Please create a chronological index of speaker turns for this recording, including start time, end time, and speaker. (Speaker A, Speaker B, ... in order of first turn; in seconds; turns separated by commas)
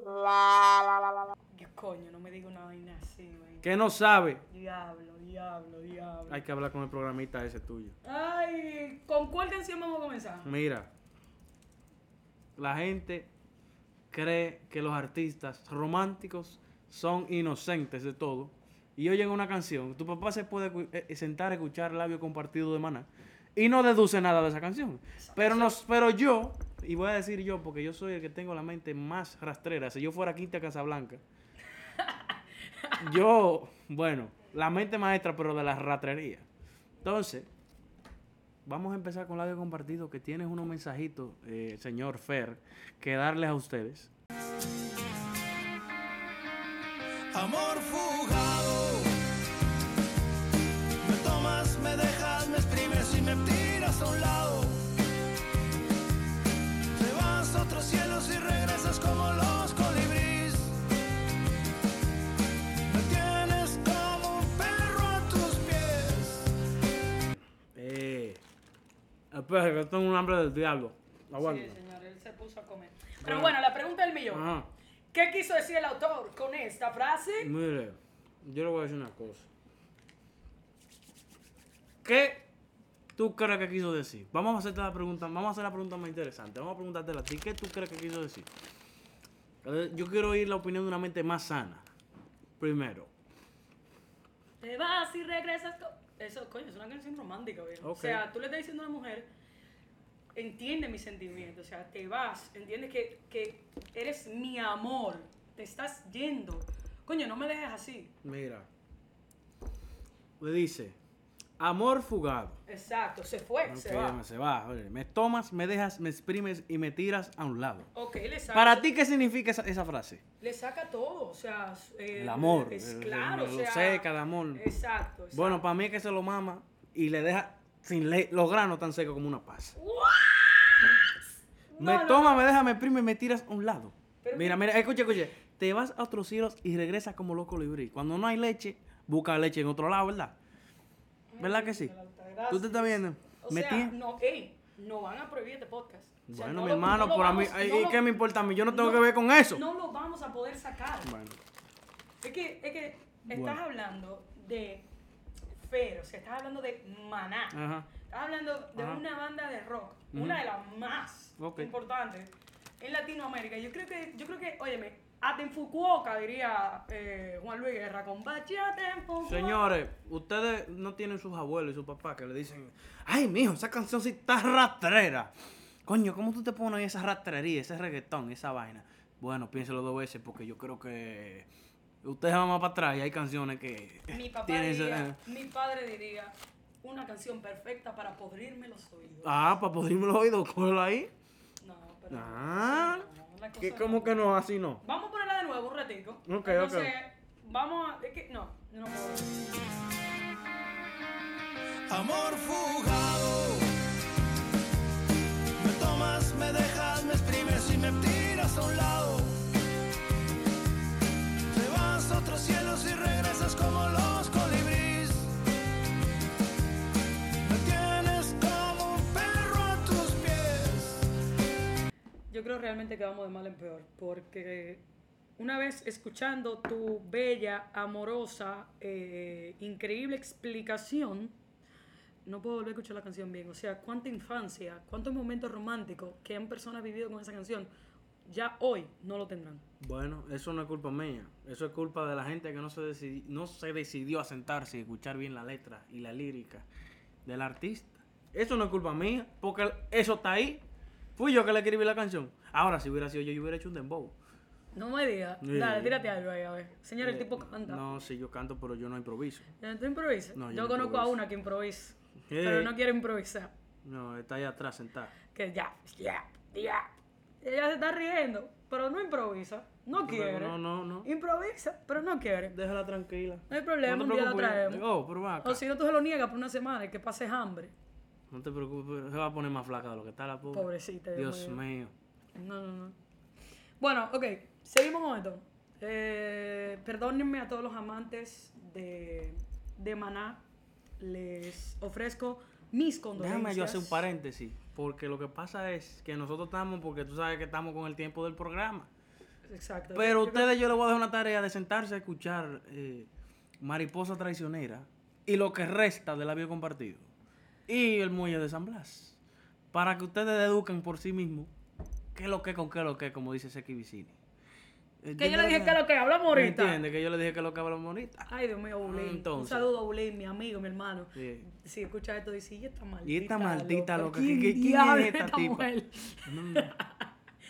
Speaker A: 1.5-3.7, Speaker B: 3.6-4.4, Speaker A: 4.5-6.4, Speaker B: 6.3-8.0, Speaker A: 8.0-10.5, Speaker B: 10.4-10.9, Speaker B: 12.6-13.3, Speaker B: 14.1-31.2, Speaker A: 25.2-25.8, Speaker A: 32.0-33.1, Speaker B: 33.0-36.5, Speaker B: 37.0-37.5, Speaker B: 38.7-44.1, Speaker C: 47.3-49.2, Speaker C: 51.0-54.8, Speaker C: 56.9-60.8, Speaker C: 62.9-66.5, Speaker B: 67.8-68.4, Speaker B: 69.3-71.8, Speaker A: 71.4-74.5, Speaker B: 73.2-73.6, Speaker B: 74.3-74.7, Speaker A: 75.1-77.5, Speaker B: 77.4-79.5, Speaker B: 82.0-82.5, Speaker B: 83.2-88.5, Speaker B: 89.6-91.8, Speaker B: 92.6-93.1, Speaker A: 94.6-99.3, Speaker B: 97.8-98.2, Speaker A: 100.3-108.1, Speaker B: 108.2-108.7, Speaker B: 110.4-111.0, Speaker B: 111.6-112.6, Speaker A: 112.7-114.2, Speaker B: 113.7-117.9, Speaker A: 117.9-118.9, Speaker B: 118.5-120.2, Speaker A: 120.4-125.7, Speaker B: 122.2-124.6, Speaker B: 125.3-129.8, Speaker A: 129.8-131.0, Speaker A: 131.7-132.5, Speaker B: 131.8-140.3, Speaker A: 134.2-134.7, Speaker A: 141.3-148.1, Speaker B: 141.4-141.9, Speaker B: 142.5-143.9, Speaker B: 146.3-149.6, Speaker A: 148.7-151.1, Speaker B: 151.0-151.4, Speaker A: 152.2-154.9, Speaker B: 153.3-153.6, Speaker A: 155.6-169.7, Speaker B: 157.5-157.9, Speaker B: 158.8-159.0, Speaker B: 160.1-160.4, Speaker B: 161.4-161.7, Speaker B: 169.2-175.3, Speaker B: 175.9-181.5, Speaker B: 182.0-185.2, Speaker A: 184.1-189.3, Speaker B: 189.2-191.1, Speaker A: 191.6-199.5, Speaker B: 192.1-193.1, Speaker B: 193.6-194.8, Speaker B: 196.3-196.9, Speaker C: 201.9-203.8, Speaker C: 205.6-209.4, Speaker C: 211.5-215.3, Speaker C: 217.4-221.1, Speaker A: 222.3-224.8, Speaker A: 225.4-231.4, Speaker A: 232.2-237.7, Speaker A: 238.2-239.7, Speaker B: 239.8-246.7, Speaker B: 247.2-250.6, Speaker B: 251.2-254.2, Speaker A: 254.8-257.8, Speaker B: 255.4-255.9, Speaker B: 257.0-259.5, Speaker A: 259.6-263.5, Speaker B: 260.3-261.2, Speaker B: 262.3-262.7, Speaker B: 263.8-265.1, Speaker A: 265.3-266.9, Speaker A: 267.4-272.6, Speaker B: 269.9-271.1, Speaker B: 272.5-275.6, Speaker A: 273.5-274.9, Speaker A: 275.4-277.7, Speaker B: 278.3-281.9, Speaker A: 280.5-281.6, Speaker A: 282.3-282.9, Speaker A: 283.8-290.4, Speaker A: 291.0-294.0, Speaker B: 293.2-298.9, Speaker A: 299.5-300.6, Speaker B: 299.9-303.1, Speaker B: 303.6-307.1, Speaker B: 307.7-309.2, Speaker B: 309.7-311.5, Speaker B: 312.1-314.2, Speaker B: 315.0-318.3, Speaker A: 315.2-316.8, Speaker A: 318.3-327.1, Speaker B: 318.8-319.7, Speaker B: 321.1-321.5, Speaker B: 323.0-325.7, Speaker B: 326.2-326.8